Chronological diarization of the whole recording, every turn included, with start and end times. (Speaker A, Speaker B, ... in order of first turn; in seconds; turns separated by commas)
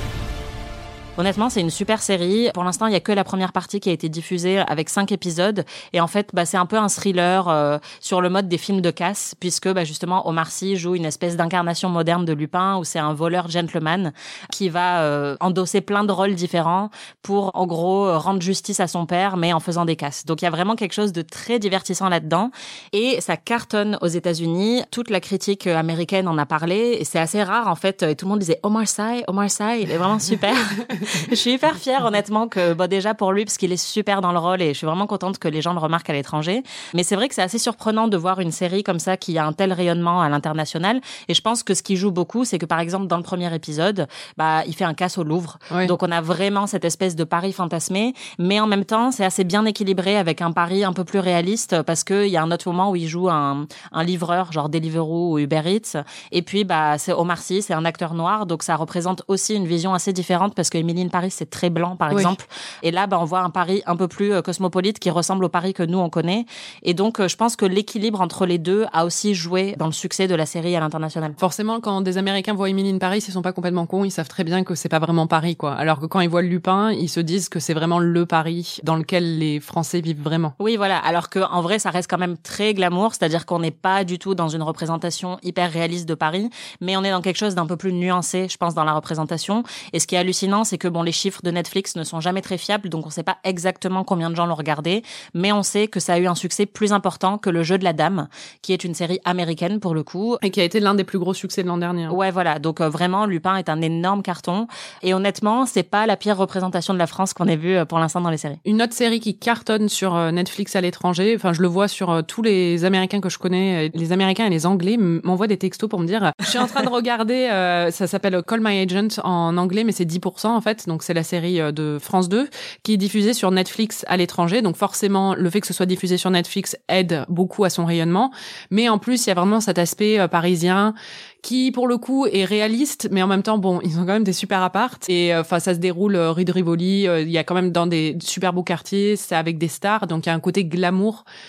Speaker A: 1.2-71.4, Speaker B: 71.4-80.5, Speaker A: 80.6-100.4, Speaker B: 100.4-102.2, Speaker A: 102.1-108.6, Speaker B: 108.6-141.2